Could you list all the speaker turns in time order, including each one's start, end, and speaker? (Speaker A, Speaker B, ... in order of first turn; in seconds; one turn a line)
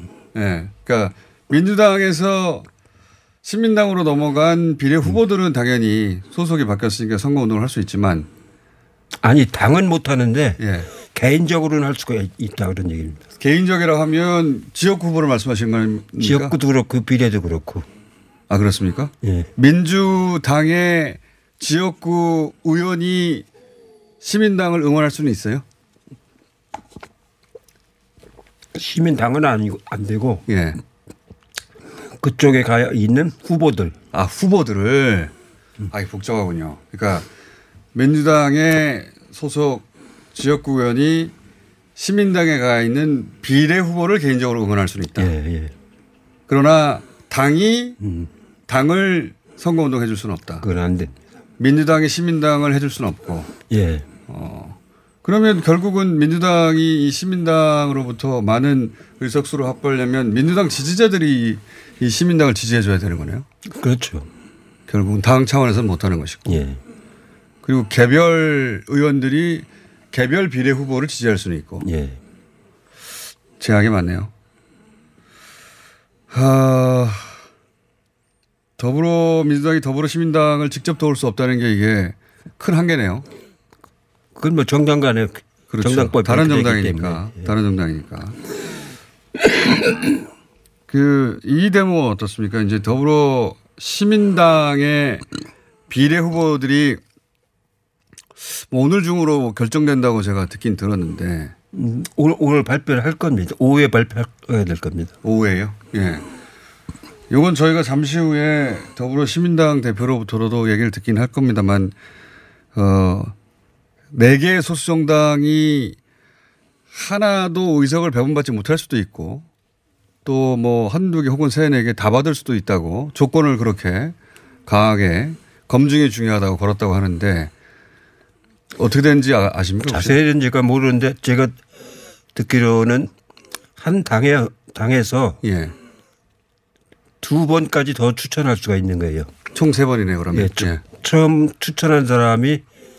Speaker A: 0.3-2.6
Speaker A: 3.4-8.3
Speaker B: 9.2-13.2
Speaker A: 10.6-10.9
Speaker A: 13.4-16.6
Speaker B: 16.2-17.9
Speaker A: 18.5-23.4
Speaker B: 19.2-19.5
Speaker A: 24.2-25.6
Speaker B: 28.7-30.4
Speaker A: 30.5-30.8
Speaker B: 32.2-34.0
Speaker A: 34.1-35.3
Speaker A: 35.9-37.3
Speaker A: 37.9-41.3
Speaker A: 42.0-45.3
Speaker B: 45.1-45.7
Speaker A: 46.5-48.0
Speaker B: 48.0-48.3
Speaker A: 48.7-50.6
Speaker B: 50.6-51.1
Speaker A: 51.6-53.5
Speaker B: 53.7-54.1
Speaker A: 54.3-63.5
Speaker B: 63.6-64.3
Speaker A: 64.9-66.6
Speaker B: 66.5-66.8
Speaker A: 67.6-71.9
Speaker B: 71.8-72.2
Speaker A: 73.6-74.3
Speaker A: 76.3-77.3
Speaker A: 78.8-83.2
Speaker B: 84.3-87.5
Speaker A: 85.7-88.3
Speaker A: 90.9-95.2
Speaker A: 95.9-97.0
Speaker A: 98.4-101.5
Speaker B: 101.7-105.1
Speaker A: 105.2-106.2
Speaker A: 107.3-111.9
Speaker A: 112.7-113.3
Speaker A: 114.1-116.0
Speaker A: 116.9-119.4
Speaker A: 120.2-124.1
Speaker A: 124.7-127.5
Speaker A: 128.7-130.2
Speaker B: 129.8-131.6
Speaker B: 132.3-133.1
Speaker B: 133.8-135.4
Speaker A: 135.4-135.7
Speaker B: 137.2-139.3
Speaker A: 139.5-140.8
Speaker B: 140.3-142.6